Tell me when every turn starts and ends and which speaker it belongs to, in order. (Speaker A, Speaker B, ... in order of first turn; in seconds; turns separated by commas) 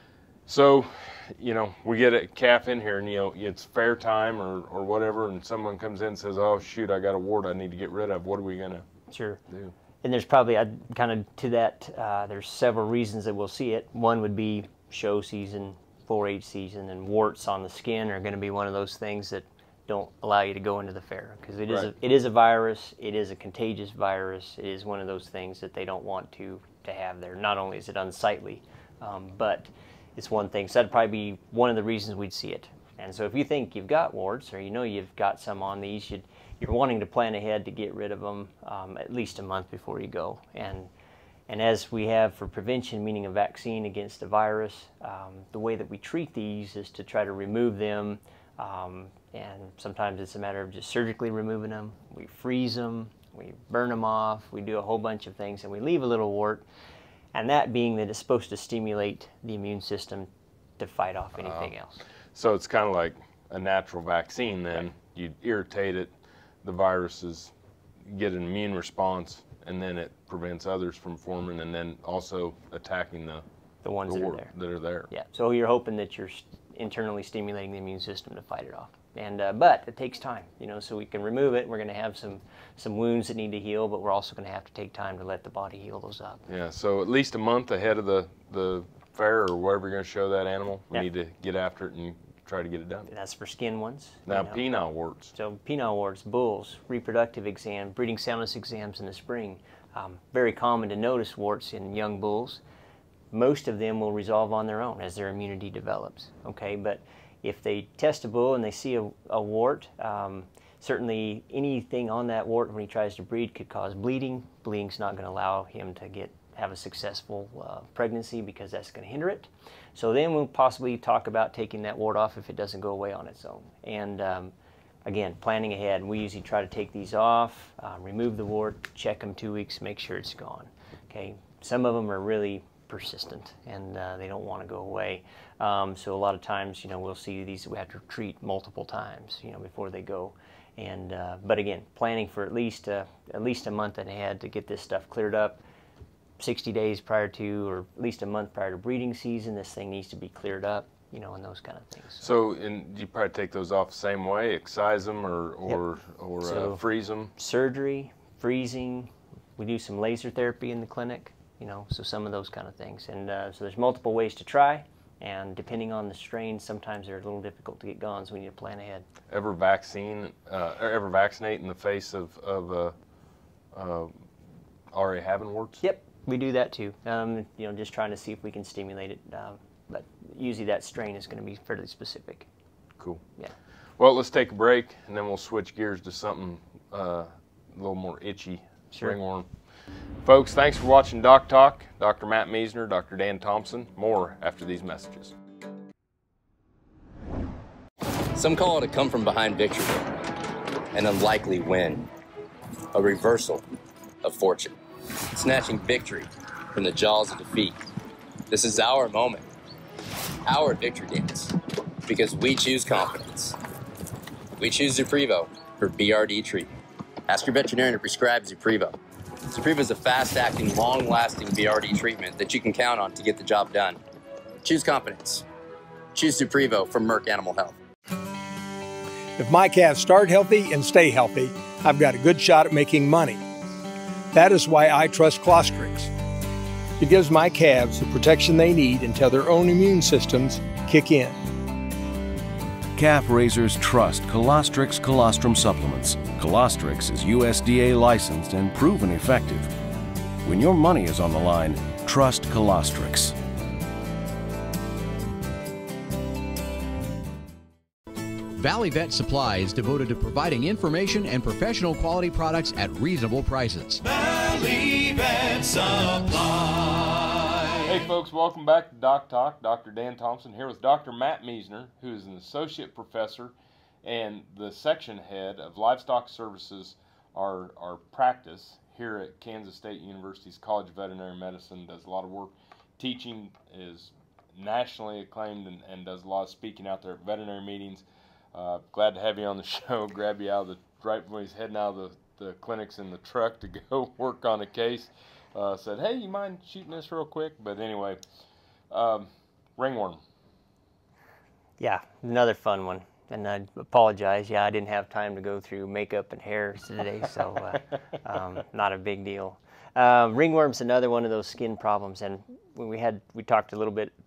Speaker A: 0.5-8.9, Speaker B: 9.1-9.4, Speaker B: 10.0-40.9, Speaker B: 41.5-56.6, Speaker B: 57.3-62.0, Speaker A: 61.4-61.7, Speaker A: 62.3-66.1, Speaker A: 66.6-67.5, Speaker A: 68.1-73.4, Speaker B: 73.8-74.5, Speaker A: 74.1-75.1, Speaker B: 75.1-86.4, Speaker A: 86.5-93.1, Speaker B: 93.1-102.6, Speaker A: 94.3-95.3, Speaker B: 103.3-124.5, Speaker B: 125.1-145.6, Speaker B: 146.4-152.3, Speaker A: 152.2-157.3, Speaker B: 156.4-156.8, Speaker B: 157.4-169.1, Speaker A: 169.3-172.9, Speaker A: 173.7-174.2, Speaker A: 174.9-175.8, Speaker B: 175.8-182.5, Speaker A: 184.0-189.5, Speaker A: 190.2-195.3, Speaker C: 198.3-200.2, Speaker C: 200.9-202.1, Speaker C: 202.9-203.6, Speaker C: 204.2-204.7, Speaker C: 205.3-207.8, Speaker C: 208.5-209.5, Speaker C: 210.5-211.6, Speaker C: 212.1-213.6, Speaker C: 214.6-216.7, Speaker C: 217.3-219.0, Speaker C: 219.5-224.0, Speaker C: 224.6-225.4, Speaker C: 226.2-227.8, Speaker D: 229.4-233.4, Speaker D: 234.3-236.1, Speaker D: 237.0-241.4, Speaker E: 242.9-249.7, Speaker E: 250.4-253.4, Speaker F: 258.6-264.0, Speaker A: 267.8-298.2, Speaker A: 298.9-300.2, Speaker B: 301.8-314.1